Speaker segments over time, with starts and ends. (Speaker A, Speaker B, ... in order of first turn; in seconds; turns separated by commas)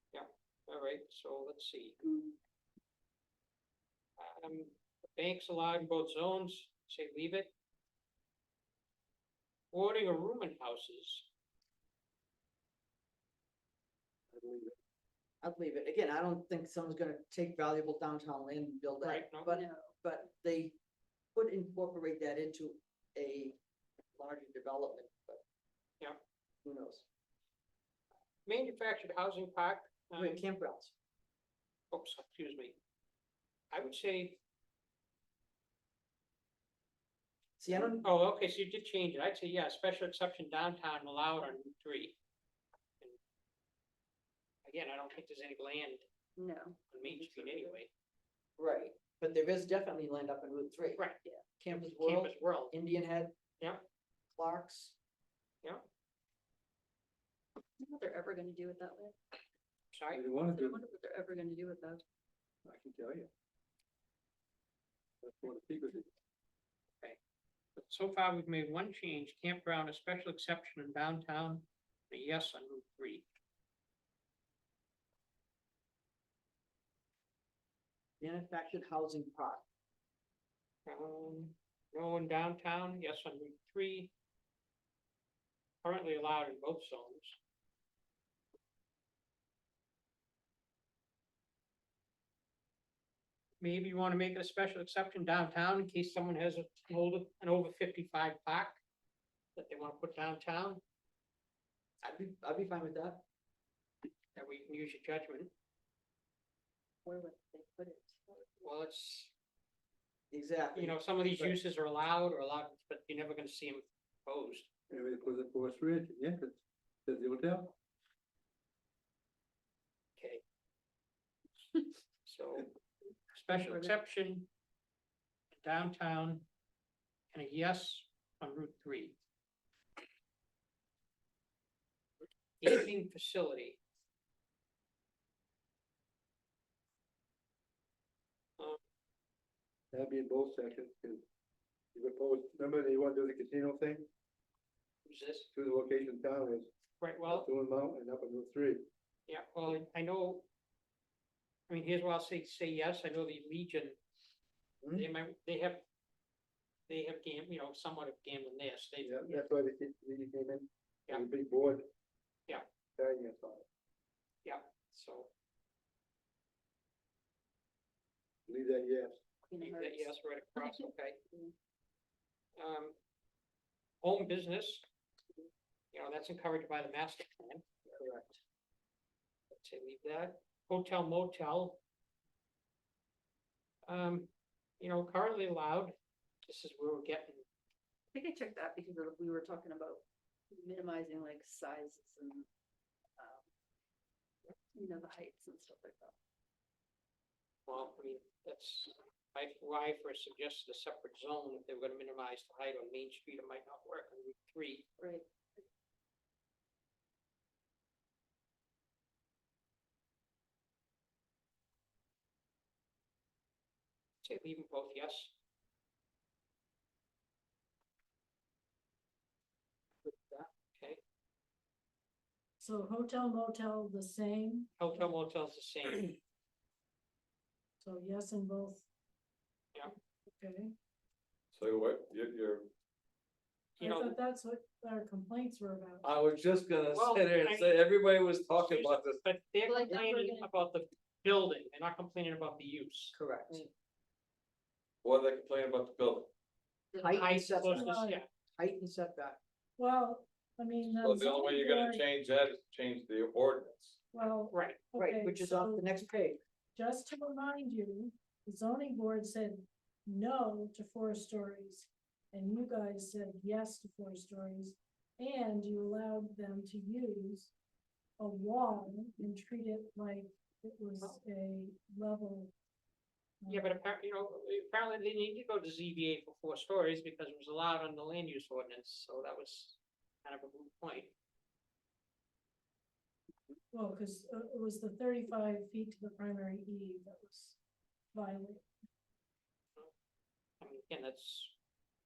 Speaker A: 0.1-1.9, Speaker B: 2.1-2.3, Speaker A: 4.2-7.5, Speaker A: 9.7-11.3, Speaker C: 14.3-14.8, Speaker D: 15.4-20.8, Speaker A: 19.0-19.5, Speaker B: 19.5-19.9, Speaker D: 21.3-23.6, Speaker D: 24.1-25.4, Speaker D: 26.6-27.0, Speaker A: 28.4-30.4, Speaker D: 30.1-30.9, Speaker A: 31.9-32.8, Speaker A: 33.7-34.4, Speaker D: 37.6-38.0, Speaker A: 37.9-42.2, Speaker A: 44.6-46.0, Speaker B: 46.4-47.7, Speaker A: 46.9-47.9, Speaker D: 48.6-51.0, Speaker D: 51.6-53.3, Speaker A: 51.8-52.7, Speaker A: 53.6-53.8, Speaker D: 54.3-55.0, Speaker B: 57.6-59.2, Speaker A: 59.9-60.2, Speaker C: 60.1-60.8, Speaker B: 60.4-62.0, Speaker C: 62.6-63.3, Speaker C: 65.2-66.1, Speaker A: 67.8-73.3, Speaker D: 78.2-79.6, Speaker A: 80.8-84.1, Speaker A: 85.8-87.4, Speaker A: 93.6-98.8, Speaker A: 99.5-100.8, Speaker D: 102.0-103.2, Speaker A: 104.3-105.5, Speaker B: 107.0-108.4, Speaker A: 108.6-109.3, Speaker D: 110.3-111.6, Speaker A: 110.7-114.7, Speaker C: 114.9-117.7, Speaker A: 120.2-120.4, Speaker A: 122.2-122.7, Speaker A: 123.3-124.5, Speaker A: 125.6-126.5, Speaker A: 127.3-129.2, Speaker A: 132.6-133.8, Speaker C: 139.9-141.2, Speaker C: 141.9-144.1, Speaker A: 145.0-145.5, Speaker C: 145.5-146.7, Speaker A: 147.0-147.5, Speaker C: 147.3-148.8, Speaker A: 149.3-150.4, Speaker A: 151.7-154.0, Speaker A: 154.9-155.8, Speaker A: 156.9-159.1, Speaker C: 159.0-161.9, Speaker C: 163.0-163.7, Speaker A: 164.4-165.3, Speaker C: 168.5-169.2, Speaker B: 169.5-171.5, Speaker A: 169.6-171.2, Speaker A: 172.6-172.9, Speaker A: 174.0-174.8, Speaker A: 175.9-177.6, Speaker D: 177.8-178.4, Speaker A: 179.5-181.8, Speaker A: 183.8-185.9, Speaker A: 186.4-187.4, Speaker B: 188.1-192.5, Speaker B: 193.2-193.4, Speaker B: 194.7-196.1, Speaker A: 197.7-204.9, Speaker B: 205.0-205.6, Speaker A: 214.2-215.3, Speaker D: 220.0-220.5, Speaker E: 222.6-225.1, Speaker A: 224.8-226.2, Speaker E: 227.8-228.8, Speaker E: 230.3-230.7, Speaker F: 231.5-232.7, Speaker A: 233.8-234.2, Speaker E: 233.8-236.1, Speaker F: 236.0-239.2, Speaker A: 236.9-237.8, Speaker A: 238.5-243.2, Speaker D: 243.1-243.7, Speaker F: 245.0-246.3, Speaker D: 246.9-248.0, Speaker A: 247.0-248.3, Speaker E: 247.6-248.2, Speaker D: 248.5-249.4, Speaker E: 249.8-252.0, Speaker F: 250.8-254.0, Speaker E: 254.1-256.1, Speaker A: 254.5-254.8, Speaker D: 254.9-256.4, Speaker E: 256.7-267.5, Speaker E: 268.2-272.5, Speaker E: 273.4-273.8, Speaker A: 273.5-281.1, Speaker E: 283.7-287.6, Speaker E: 288.1-288.6, Speaker A: 290.6-291.5